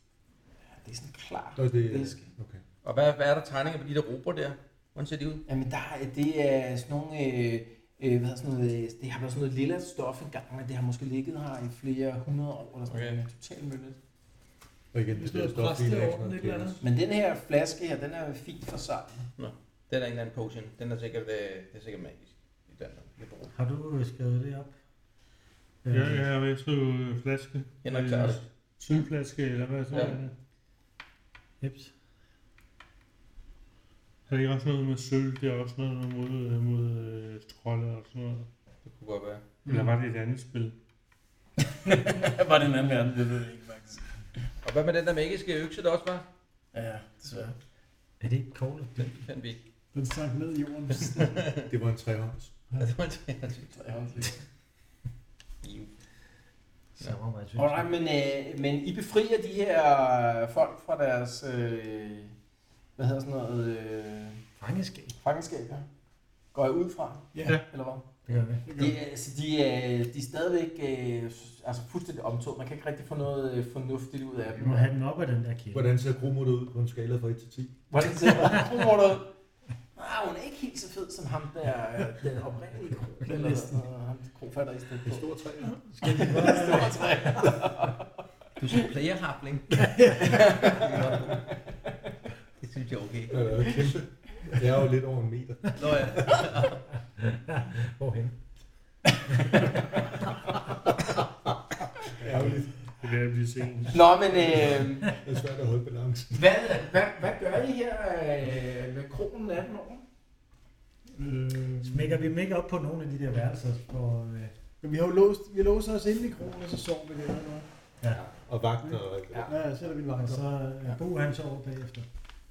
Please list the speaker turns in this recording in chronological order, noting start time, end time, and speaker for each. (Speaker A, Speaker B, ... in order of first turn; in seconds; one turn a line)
Speaker A: 0.8-2.3
Speaker B: 1.6-2.6
Speaker C: 2.8-5.4
Speaker A: 5.5-14.0
Speaker C: 12.9-13.2
Speaker B: 14.9-16.8
Speaker D: 15.2-16.8
Speaker A: 16.8-19.3
Speaker C: 19.4-23.5
Speaker E: 23.5-24.7
Speaker E: 25.8-26.2
Speaker F: 25.9-30.3
Speaker C: 27.8-28.4
Speaker C: 29.9-30.2
Speaker E: 31.6-31.9
Speaker F: 34.3-38.5
Speaker C: 38.9-39.4
Speaker D: 39.6-40.0
Speaker F: 39.7-40.8
Speaker A: 41.6-44.0
Speaker C: 44.6-46.2
Speaker A: 46.7-47.6
Speaker E: 48.2-49.2
Speaker C: 49.0-49.6
Speaker D: 49.9-51.5
Speaker C: 50.9-51.7
Speaker B: 51.7-52.5
Speaker C: 52.8-53.7
Speaker A: 53.7-54.4
Speaker C: 55.6-55.9
Speaker E: 57.0-57.9
Speaker A: 57.6-62.3
Speaker A: 63.0-64.4
Speaker E: 64.6-65.2
Speaker A: 65.2-65.9
Speaker A: 66.5-68.1
Speaker D: 67.3-67.6
Speaker E: 68.3-68.7
Speaker D: 68.7-69.0
Speaker A: 68.8-74.9
Speaker E: 74.6-76.0
Speaker B: 75.7-78.5
Speaker A: 77.9-79.3
Speaker A: 80.0-85.3
Speaker D: 83.3-83.8
Speaker B: 85.0-86.2
Speaker E: 85.8-87.3
Speaker A: 86.0-88.1
Speaker C: 88.6-91.5
Speaker D: 89.8-90.4
Speaker A: 90.2-91.4
Speaker C: 92.6-93.4
Speaker B: 93.3-96.6
Speaker C: 95.8-96.8
Speaker E: 97.2-98.4
Speaker B: 102.2-102.7
Speaker F: 102.9-104.0
Speaker A: 103.9-105.2
Speaker B: 104.6-106.5
Speaker A: 106.3-110.0
Speaker D: 111.1-112.2
Speaker E: 111.8-114.5
Speaker D: 114.8-117.7
Speaker E: 118.0-118.3
Speaker B: 118.2-119.5
Speaker D: 118.8-120.5
Speaker E: 120.2-122.1